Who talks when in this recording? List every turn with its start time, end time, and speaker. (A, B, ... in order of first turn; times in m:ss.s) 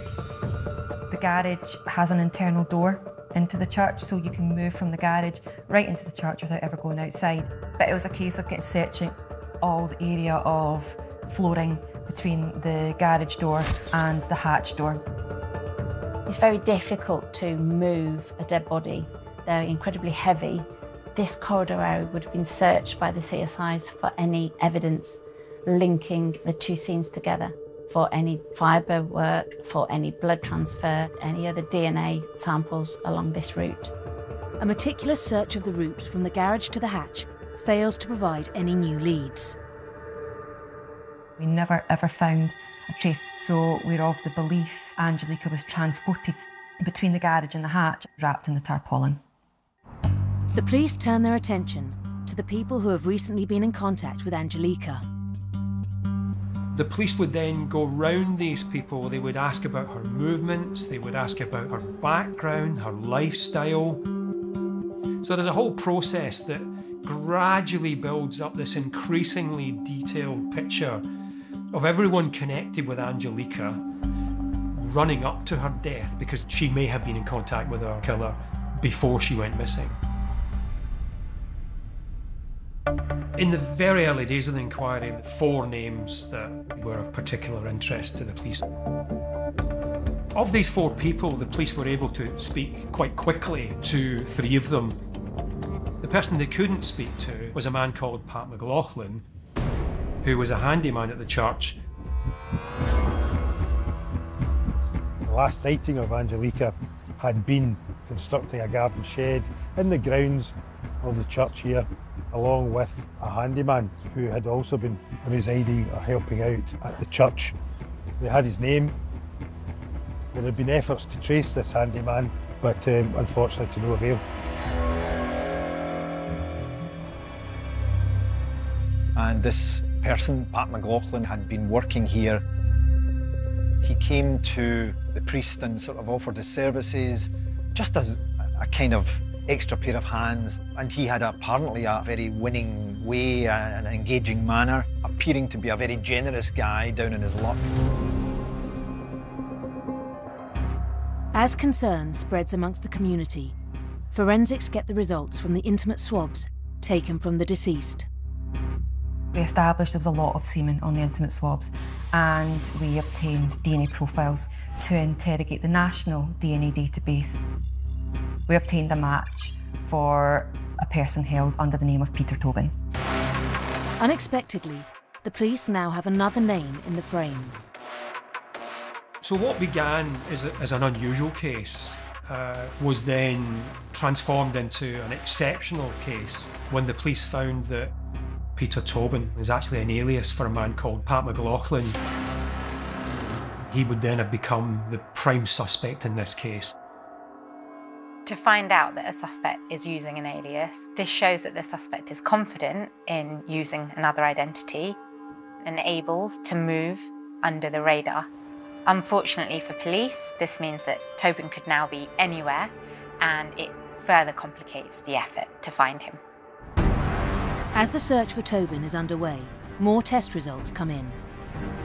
0:01.1-0:15.0 A
0:16.3-0:33.9 B
0:34.6-0:39.6 C
0:41.4-0:49.2 A
0:50.5-0:55.0 C
0:56.7-1:04.0 D
1:05.2-1:11.0 D
1:11.7-1:13.8 D
1:14.7-1:20.0 D
1:23.4-1:28.6 D
1:30.3-1:35.0 D
1:36.0-1:39.2 D
1:40.2-1:41.8 D
1:45.6-1:46.6 E
1:47.2-1:50.4 E
1:51.1-1:51.7 E
1:52.4-1:52.8 E
1:53.6-1:56.3 E
1:58.4-1:58.8 E
2:00.4-2:02.1 E
2:02.8-2:03.9 E
2:09.1-2:12.4 F
2:13.8-2:27.6 F
2:31.3-2:33.6 C
2:34.1-2:38.1 C
2:39.3-2:47.4 A
2:48.5-2:52.7 A
2:54.0-2:57.6 C
2:59.2-3:07.9 D
3:08.6-3:12.0 D
3:13.7-3:16.8 D
3:18.2-3:25.0 G
3:25.6-3:28.3 G
3:28.9-3:36.2 G
3:37.7-3:41.2 C